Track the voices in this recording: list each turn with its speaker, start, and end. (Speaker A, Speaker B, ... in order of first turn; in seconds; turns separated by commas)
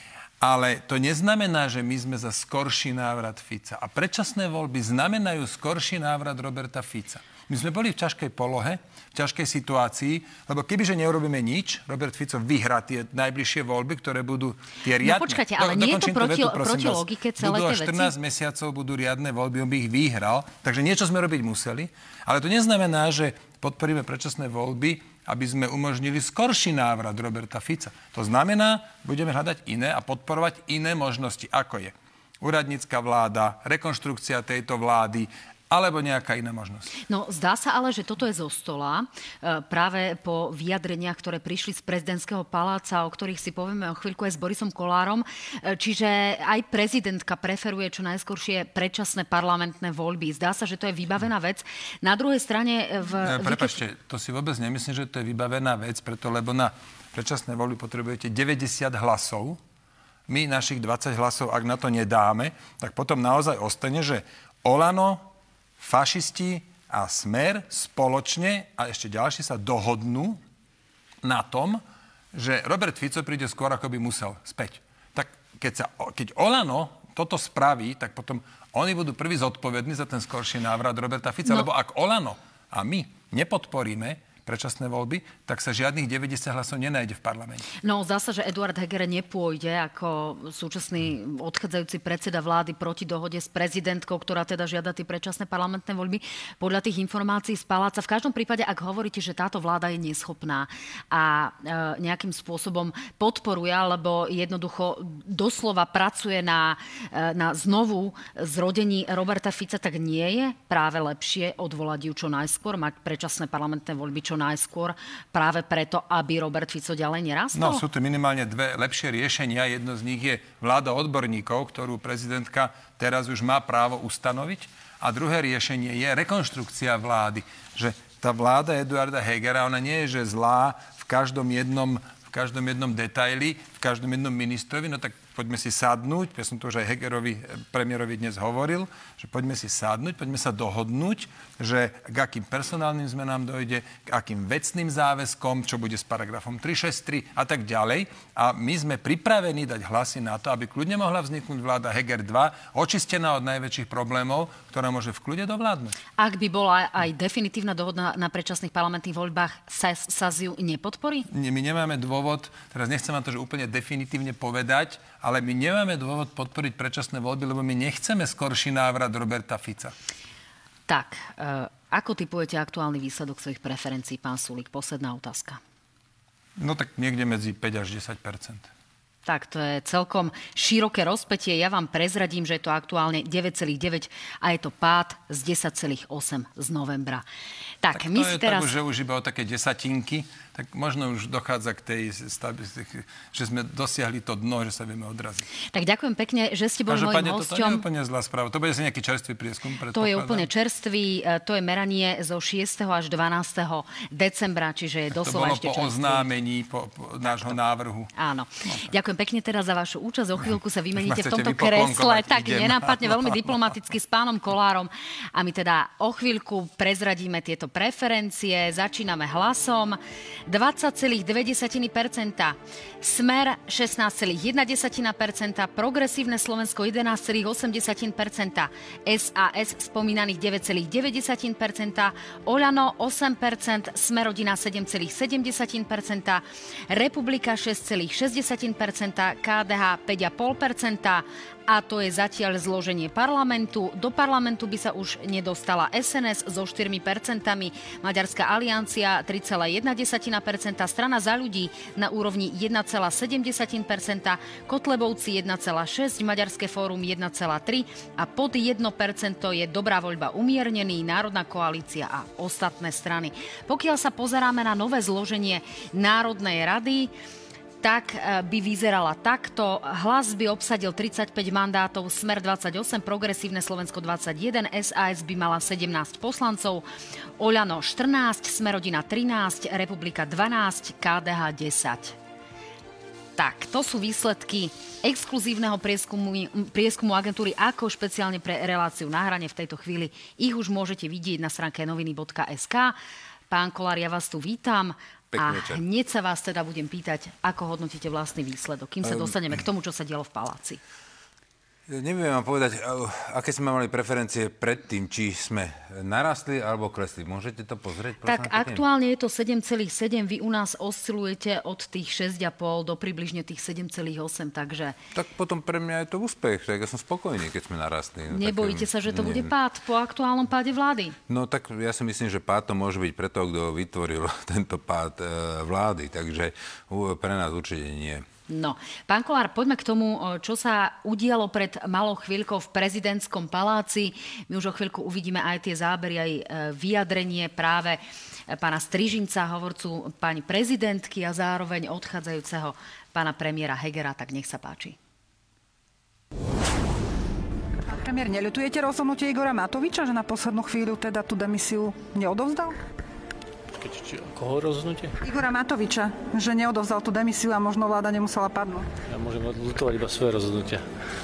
Speaker A: 0.4-36.9, Speaker B: 15.0-18.1, Speaker B: 37.1-53.8, Speaker A: 53.2-59.6, Speaker A: 60.3-65.3, Speaker A: 65.8-70.4, Speaker A: 71.2-71.8, Speaker A: 72.3-87.7, Speaker B: 87.8-117.8, Speaker A: 117.5-155.9, Speaker B: 156.2-161.3, Speaker A: 161.3-169.9, Speaker B: 170.9-175.6, Speaker A: 176.6-178.7, Speaker B: 179.2-187.2, Speaker B: 187.8-188.7, Speaker A: 187.9-195.5, Speaker B: 195.7-197.8, Speaker A: 196.9-200.5, Speaker B: 199.9-206.3, Speaker A: 205.1-208.1, Speaker B: 208.2-267.1, Speaker A: 211.0-213.4, Speaker B: 267.8-276.9, Speaker B: 277.4-282.1, Speaker B: 283.4-292.9, Speaker B: 293.5-300.8, Speaker C: 295.3-295.8, Speaker C: 299.0-299.3, Speaker C: 301.9-308.8, Speaker B: 308.2-315.0, Speaker C: 315.1-319.5, Speaker B: 318.3-321.1, Speaker C: 321.3-328.2, Speaker B: 328.5-344.9, Speaker D: 347.9-352.8, Speaker E: 353.7-355.2, Speaker D: 355.2-358.9, Speaker E: 359.1-360.9